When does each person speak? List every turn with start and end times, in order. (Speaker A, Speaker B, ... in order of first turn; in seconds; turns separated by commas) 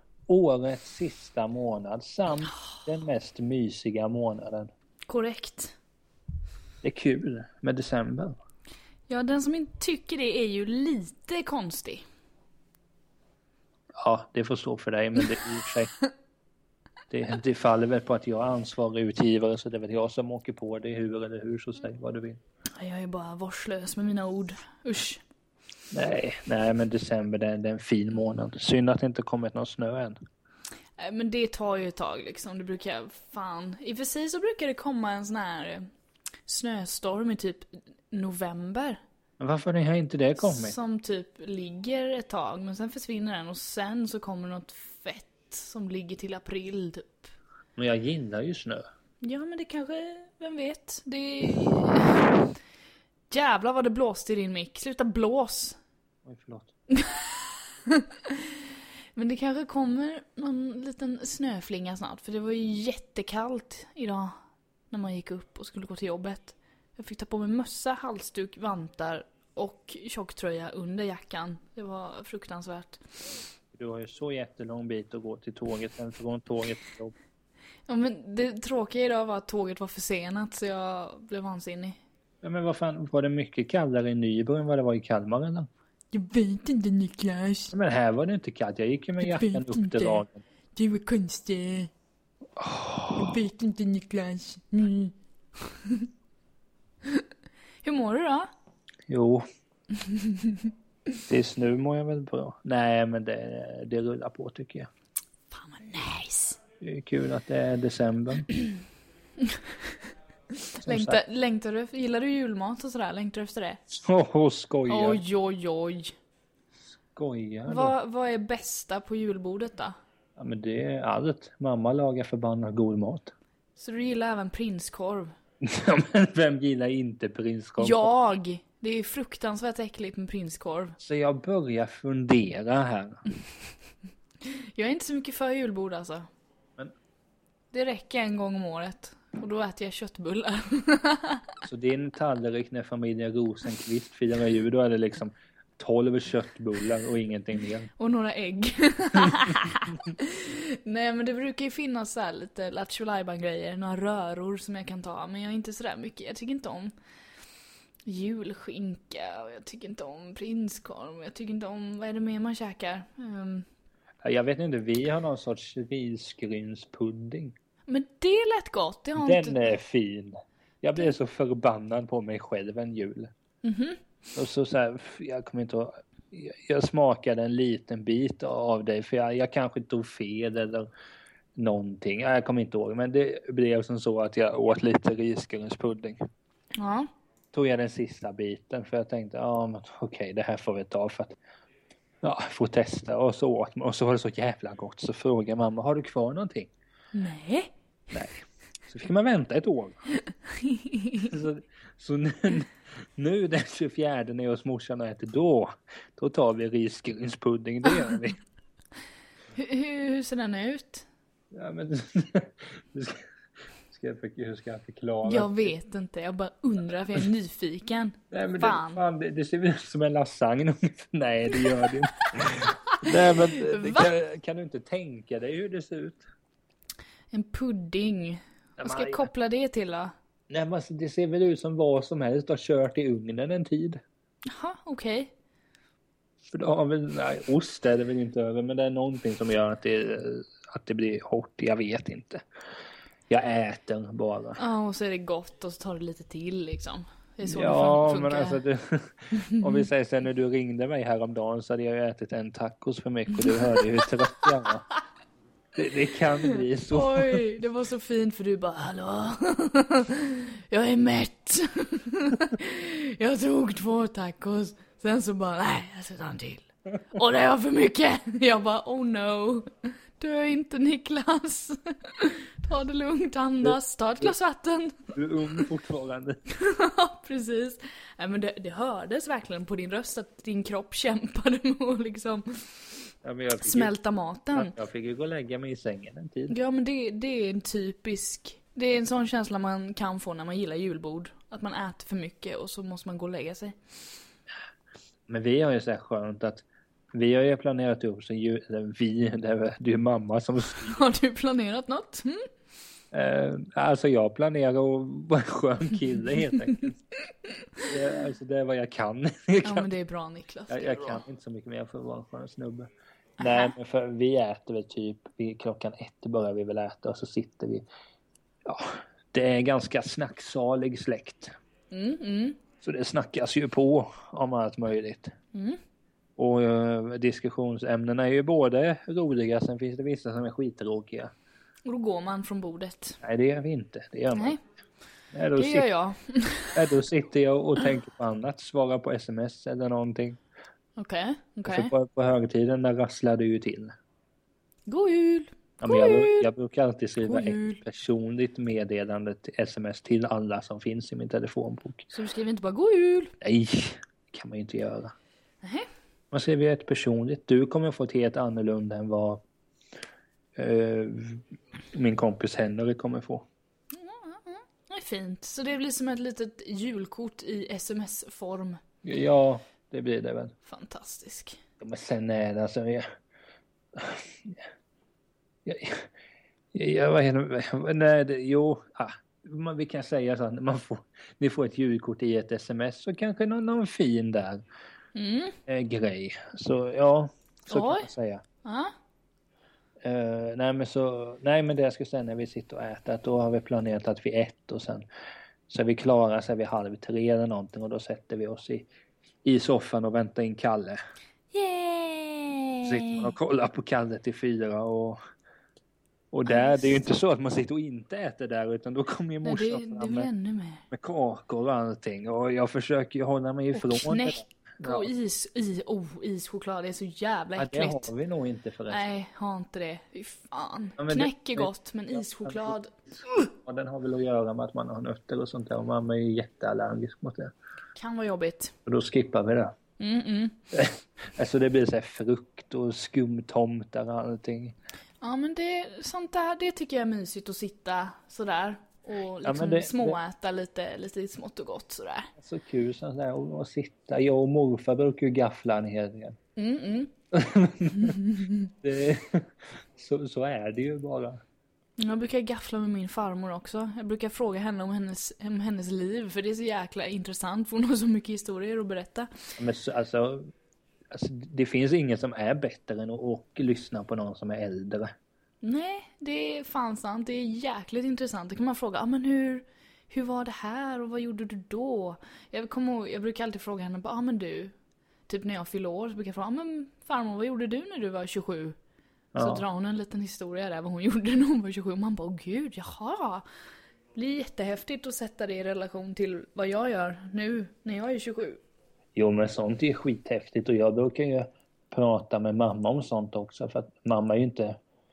Speaker A: 0.3-4.7, Speaker B: 5.1-5.8, Speaker A: 6.8-8.3, Speaker B: 9.1-12.0, Speaker A: 14.0-15.9, Speaker A: 17.1-22.4, Speaker B: 22.8-25.2, Speaker A: 25.9-30.2, Speaker B: 31.0-35.9, Speaker B: 36.5-39.0, Speaker A: 39.4-40.8, Speaker B: 40.4-47.3, Speaker A: 47.8-48.8, Speaker B: 49.2-52.4, Speaker B: 53.3-55.8, Speaker A: 56.2-56.7, Speaker B: 56.9-58.6, Speaker B: 59.2-64.3, Speaker B: 64.9-73.0, Speaker A: 73.7-77.2, Speaker B: 77.9-82.0, Speaker A: 82.4-85.7, Speaker B: 86.1-87.7, Speaker A: 87.7-90.4, Speaker B: 89.2-90.2, Speaker B: 90.8-91.9, Speaker A: 92.6-93.4, Speaker B: 93.2-96.1, Speaker B: 97.8-98.5, Speaker A: 99.1-99.4, Speaker B: 100.0-100.7, Speaker A: 101.3-104.9, Speaker B: 105.5-106.6, Speaker A: 106.8-108.5, Speaker B: 109.4-110.0, Speaker B: 110.5-113.8, Speaker A: 110.8-111.2, Speaker A: 113.9-115.2, Speaker B: 114.9-116.1, Speaker A: 117.2-117.9, Speaker B: 117.7-120.0, Speaker A: 120.4-123.3, Speaker B: 123.8-125.3, Speaker A: 125.6-128.1, Speaker B: 127.8-131.0, Speaker A: 131.0-133.2, Speaker B: 134.4-136.3, Speaker B: 137.7-141.6, Speaker A: 141.7-147.9, Speaker B: 148.0-156.9, Speaker B: 158.1-163.7, Speaker A: 164.2-167.6, Speaker B: 167.9-169.7, Speaker A: 169.2-173.3, Speaker B: 173.6-174.0, Speaker A: 174.3-180.9, Speaker A: 181.6-186.2, Speaker B: 186.7-187.1, Speaker A: 187.5-191.4, Speaker A: 192.2-196.7, Speaker B: 197.1-197.7, Speaker A: 198.1-200.0, Speaker B: 200.5-201.3, Speaker A: 201.2-208.4, Speaker B: 209.6-211.1, Speaker A: 211.5-213.2, Speaker A: 213.9-215.7, Speaker B: 215.2-219.0, Speaker A: 218.3-226.3, Speaker B: 222.7-224.1, Speaker B: 227.3-230.1, Speaker A: 228.8-229.3, Speaker A: 230.5-234.0, Speaker B: 234.5-235.3, Speaker A: 236.5-242.4, Speaker A: 243.3-244.6, Speaker B: 244.6-248.6, Speaker A: 247.4-254.9, Speaker B: 249.4-249.8, Speaker B: 253.5-254.1, Speaker A: 255.8-257.5, Speaker B: 256.9-275.6, Speaker A: 273.6-274.3, Speaker A: 275.1-276.4, Speaker B: 276.5-282.8, Speaker A: 283.2-283.9, Speaker B: 283.6-284.8, Speaker A: 284.5-286.6, Speaker B: 286.5-293.8, Speaker A: 295.3-301.0, Speaker B: 300.8-302.5, Speaker A: 303.1-307.0, Speaker A: 307.9-309.9, Speaker B: 309.6-311.2, Speaker A: 310.7-312.9, Speaker A: 313.4-317.9, Speaker B: 313.4-313.7, Speaker A: 318.6-321.5, Speaker B: 321.9-322.6, Speaker A: 322.8-325.3, Speaker B: 325.5-325.8, Speaker A: 326.4-331.3, Speaker B: 331.9-333.2, Speaker A: 333.2-334.6, Speaker B: 334.3-334.6, Speaker A: 335.3-335.9, Speaker B: 335.6-336.8, Speaker A: 336.7-340.4, Speaker B: 341.0-341.9, Speaker A: 341.7-343.9, Speaker B: 344.9-346.5, Speaker A: 345.8-352.1, Speaker B: 347.2-347.8, Speaker B: 352.1-353.3, Speaker A: 353.4-355.1, Speaker B: 355.6-355.9, Speaker A: 356.3-359.4, Speaker A: 360.6-363.4, Speaker B: 363.9-368.8, Speaker A: 369.0-370.5, Speaker B: 370.6-371.6, Speaker A: 371.8-373.1, Speaker A: 373.9-374.6, Speaker A: 375.6-376.1, Speaker A: 376.7-384.6, Speaker B: 385.1-385.6, Speaker A: 385.7-388.4, Speaker B: 387.7-388.1, Speaker B: 388.6-388.9, Speaker A: 390.0-395.1, Speaker A: 395.7-398.9, Speaker A: 399.4-401.0, Speaker B: 401.5-403.3, Speaker A: 402.9-405.2, Speaker A: 406.3-410.3, Speaker B: 406.5-407.1, Speaker B: 409.4-410.9, Speaker A: 410.9-415.1, Speaker B: 413.7-418.1, Speaker A: 417.6-419.1, Speaker B: 418.9-423.5, Speaker A: 421.0-427.5, Speaker B: 427.9-428.8, Speaker A: 428.9-429.7, Speaker B: 430.0-430.6, Speaker A: 430.7-434.8, Speaker B: 435.2-442.3, Speaker A: 439.4-440.2, Speaker A: 442.4-446.4, Speaker B: 446.6-447.1, Speaker A: 447.3-448.2, Speaker B: 447.9-448.7, Speaker A: 448.7-451.4, Speaker B: 452.0-459.3, Speaker A: 459.6-460.5, Speaker A: 461.1-465.1, Speaker B: 465.6-474.7, Speaker B: 475.3-478.8, Speaker A: 479.3-479.6, Speaker B: 479.4-483.4, Speaker B: 484.1-488.6, Speaker A: 489.1-494.8